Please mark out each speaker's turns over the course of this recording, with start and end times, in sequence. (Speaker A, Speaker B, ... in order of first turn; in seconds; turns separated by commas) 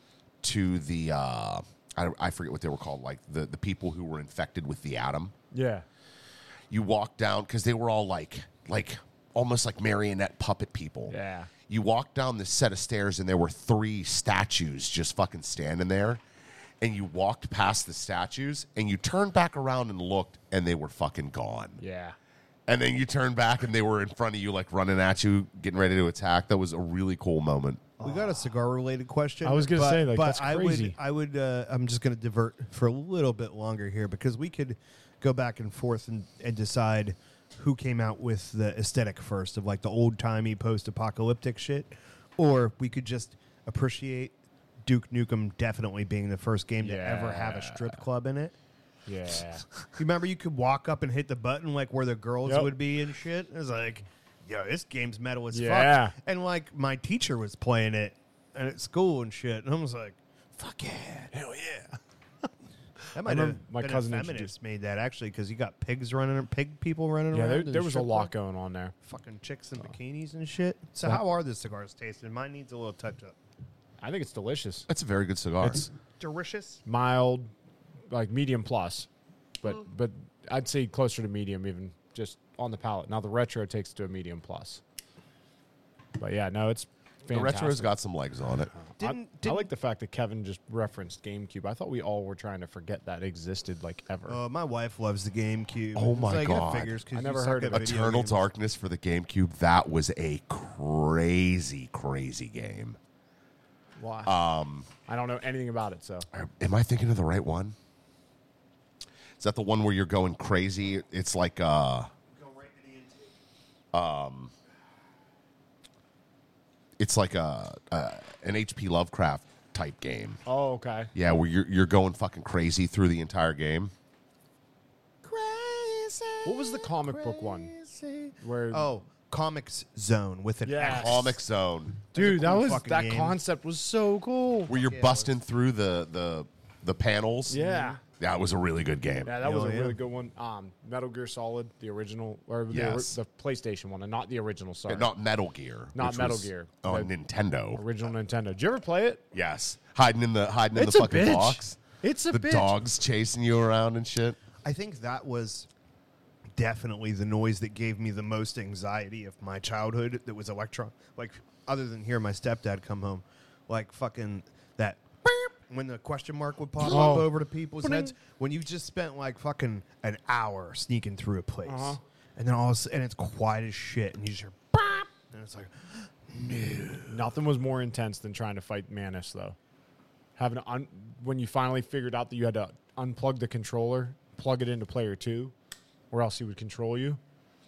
Speaker A: 0.4-5.3, Speaker B: 5.5-5.8, Speaker A: 6.7-11.1, Speaker B: 11.1-11.5, Speaker A: 11.7-16.2, Speaker A: 16.8-21.8, Speaker B: 21.8-22.1, Speaker A: 22.7-27.9, Speaker C: 28.0-48.5, Speaker B: 29.4-31.0, Speaker B: 46.8-48.0, Speaker B: 49.0-49.6, Speaker C: 50.0-61.3, Speaker B: 52.4-52.7, Speaker B: 55.5-56.1, Speaker B: 61.3-62.0, Speaker B: 63.1-64.5, Speaker C: 63.1-68.3, Speaker B: 67.3-68.9, Speaker C: 69.0-73.3, Speaker B: 74.0-74.9, Speaker A: 74.9-75.9, Speaker C: 76.2-76.8, Speaker B: 76.8-77.5, Speaker B: 78.1-79.1, Speaker B: 79.6-84.8, Speaker B: 86.2-87.9, Speaker A: 87.3-88.7, Speaker B: 88.8-94.4, Speaker C: 89.0-89.7, Speaker C: 94.3-98.4, Speaker A: 95.9-97.0, Speaker B: 97.1-98.2, Speaker A: 97.7-103.0, Speaker B: 104.0-104.4, Speaker A: 104.2-104.9, Speaker B: 105.0-106.3, Speaker A: 106.3-107.7, Speaker A: 109.4-112.1, Speaker C: 112.3-113.4, Speaker A: 113.9-114.5, Speaker A: 117.0-120.4, Speaker B: 120.5-121.1, Speaker A: 121.1-123.9, Speaker C: 125.2-131.4, Speaker B: 126.4-127.7, Speaker B: 128.4-128.9, Speaker B: 130.6-131.3, Speaker A: 130.8-132.0, Speaker C: 132.1-133.4, Speaker B: 132.1-134.7, Speaker A: 134.7-139.4, Speaker C: 134.7-135.3, Speaker B: 137.5-138.0, Speaker C: 137.6-138.0, Speaker B: 139.2-145.1, Speaker C: 139.4-140.0, Speaker A: 142.7-143.2, Speaker A: 144.9-147.8, Speaker B: 145.9-147.1, Speaker B: 147.7-149.2, Speaker A: 149.3-154.4, Speaker B: 150.7-152.7, Speaker C: 154.6-155.7, Speaker C: 156.6-177.3, Speaker B: 166.8-168.1, Speaker B: 171.6-172.0, Speaker B: 177.1-179.6, Speaker B: 180.3-185.5, Speaker B: 186.1-187.2